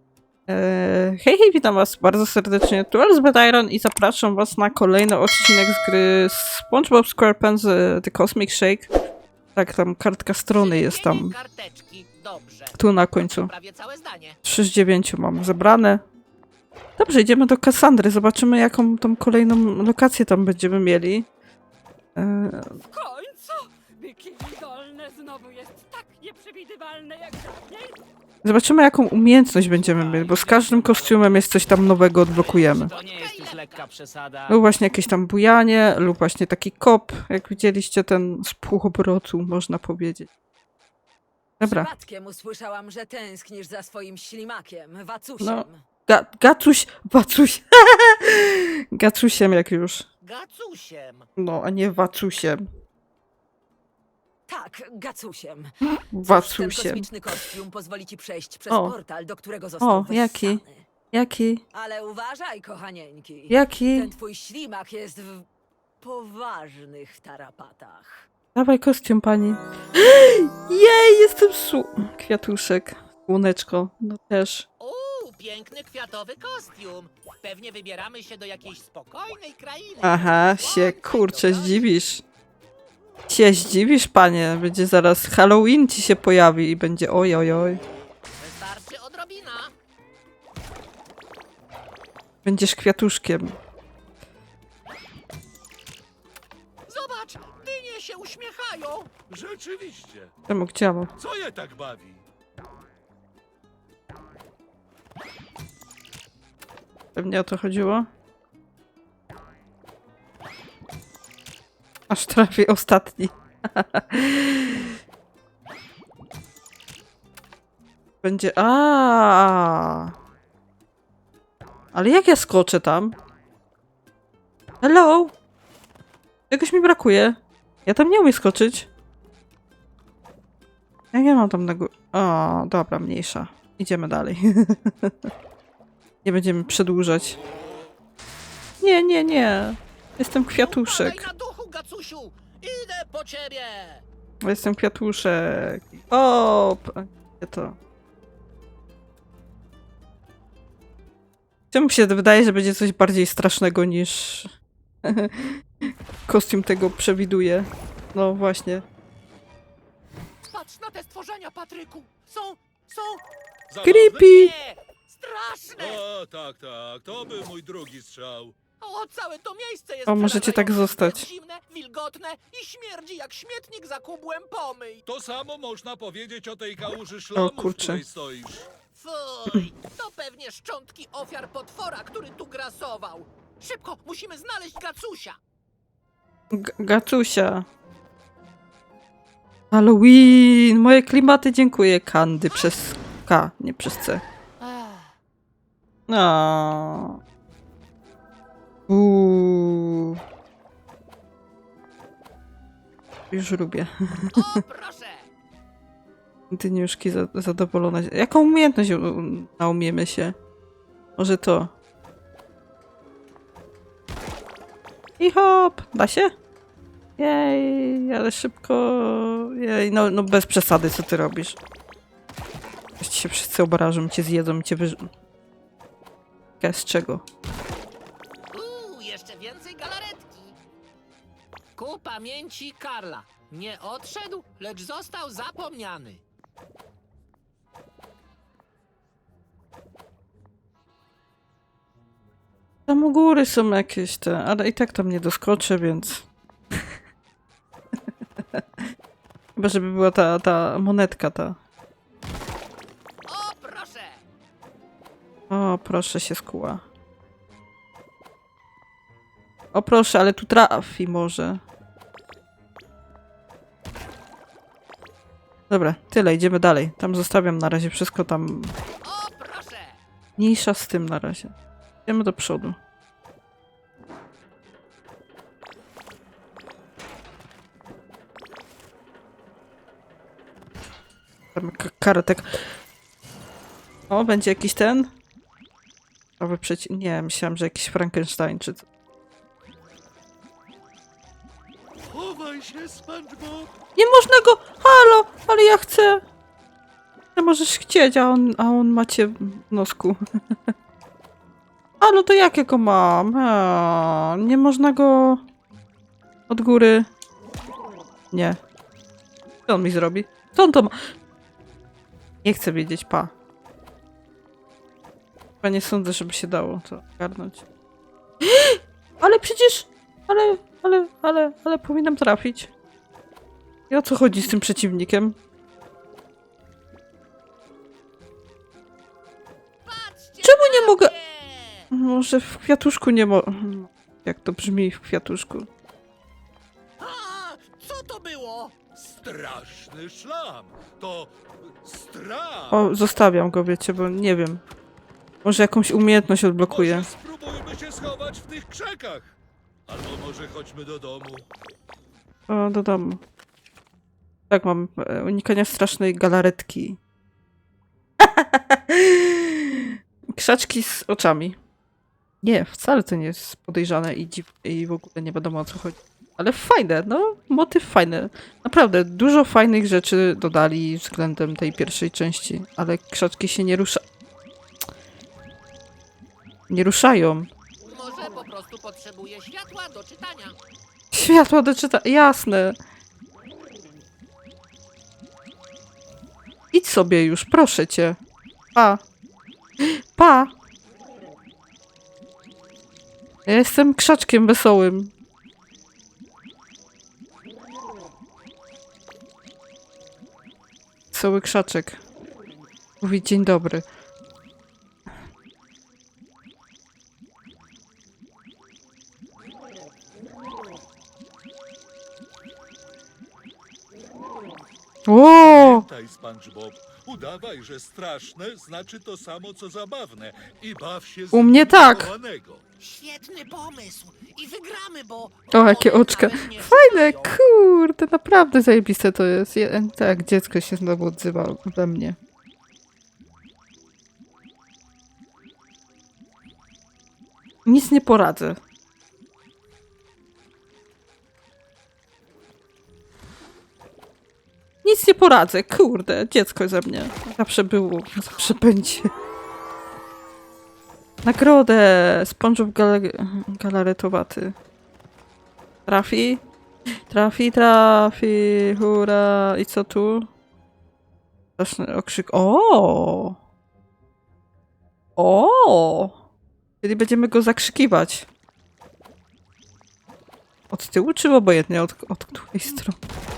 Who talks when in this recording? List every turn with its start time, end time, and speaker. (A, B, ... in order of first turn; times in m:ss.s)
0:00.5-0:08.9 A
0:09.6-0:11.3 A
0:10.5-0:14.4 B
0:12.7-0:13.5 A
0:14.4-0:16.0 A
0:17.0-0:21.3 A
0:22.2-0:22.8 A
0:22.9-0:27.9 C
0:28.4-0:32.9 A
0:29.7-0:31.5 D
0:32.3-0:34.6 D
0:32.8-0:33.9 B
0:34.5-0:40.3 A
0:41.6-0:41.9 A
0:41.6-0:45.8 E
0:45.4-0:50.1 A
0:50.2-0:51.3 B
0:51.4-0:52.6 A
0:54.5-0:55.7 E
0:56.1-0:57.1 A
0:56.3-1:00.9 E
0:58.7-0:59.0 A
0:59.8-1:00.6 A
1:01.1-1:01.6 A
1:01.7-1:05.5 E
1:03.5-1:04.1 A
1:06.0-1:08.3 E
1:08.6-1:14.7 A
1:14.8-1:21.9 B
1:20.0-1:22.2 A
1:23.3-1:27.8 A
1:28.4-1:29.7 B
1:32.4-1:33.6 A
1:36.9-1:39.1 B
1:39.3-1:40.3 F
1:40.5-1:41.1 A
1:41.2-1:42.3 F
1:47.2-1:48.1 A
1:52.1-1:55.0 A
1:58.2-2:00.2 A
2:01.9-2:03.2 A
2:04.8-2:05.3 A
2:06.5-2:08.9 A
2:11.1-2:15.3 A
2:16.2-2:17.4 A
2:18.8-2:21.3 A
2:20.6-2:24.0 B
2:24.4-2:27.8 A
2:31.7-2:34.5 A
2:35.0-2:35.6 A
2:36.3-2:38.8 A
2:40.5-2:43.2 B
2:43.7-2:44.3 F
2:43.8-2:44.5 A
2:44.2-2:46.0 B
2:45.8-2:48.6 F
2:48.8-2:55.0 B
2:50.1-2:51.2 A
2:55.1-2:58.7 F
2:57.4-2:58.0 A
2:58.9-3:05.4 B
3:06.5-3:07.7 A
3:09.7-3:14.2 A
3:14.6-3:15.2 B
3:16.1-3:17.2 A
3:18.9-3:20.2 A
3:23.3-3:24.6 A
3:24.3-3:25.3 B
3:26.5-3:30.4 A
3:31.2-3:31.7 A
3:35.2-3:36.3 A
3:37.2-3:41.6 A
3:43.0-3:45.1 A
3:46.6-3:47.2 A
3:48.5-3:50.6 B
3:51.8-3:56.2 B
4:02.9-4:06.3 A
4:08.4-4:08.6 A
4:09.6-4:11.6 A
4:13.3-4:14.2 B
4:15.5-4:16.8 A
4:19.7-4:21.6 A
4:25.7-4:28.7 A
4:29.0-4:30.0 B
4:30.4-4:31.5 A
4:32.1-4:32.8 A
4:41.6-4:42.7 A
4:44.1-4:45.1 A
4:46.4-4:48.8 A
4:52.1-4:53.7 F
4:54.0-4:56.2 A
4:57.4-5:00.7 A
5:02.0-5:05.4 A
5:06.5-5:07.1 A
5:08.3-5:08.6 A
5:09.7-5:11.0 A
5:12.4-5:13.3 A
5:15.6-5:17.6 A
5:18.4-5:22.7 A
5:23.9-5:25.4 A
5:29.9-5:31.9 B
5:30.4-5:31.1 A
5:31.9-5:35.7 A
5:37.0-5:38.9 B
5:39.0-5:42.8 F
5:42.7-5:44.6 A
5:45.4-5:47.1 A
5:46.7-5:49.4 F
5:49.9-5:51.4 F
5:52.5-5:53.2 A
5:54.5-5:57.0 A
5:58.2-6:01.6 A
6:02.4-6:14.0 A
6:16.7-6:17.5 A
6:17.9-6:20.6 B
6:21.1-6:22.8 A
6:26.7-6:28.2 A
6:28.8-6:29.0 A
6:29.8-6:30.5 A
6:33.5-6:35.1 A
6:41.1-6:42.0 A
6:43.0-6:43.8 A
6:55.1-6:55.8 A
6:55.4-7:02.6 F
7:01.3-7:02.1 A
7:02.8-7:07.4 B
7:05.5-7:12.2 A
7:17.7-7:18.6 A
7:24.8-7:29.1 A
7:31.2-7:34.6 A
7:35.9-7:36.4 A
7:37.1-7:40.3 A
7:41.6-7:43.4 A
7:45.2-7:46.2 A
7:46.8-7:48.3 A
7:50.7-7:53.0 A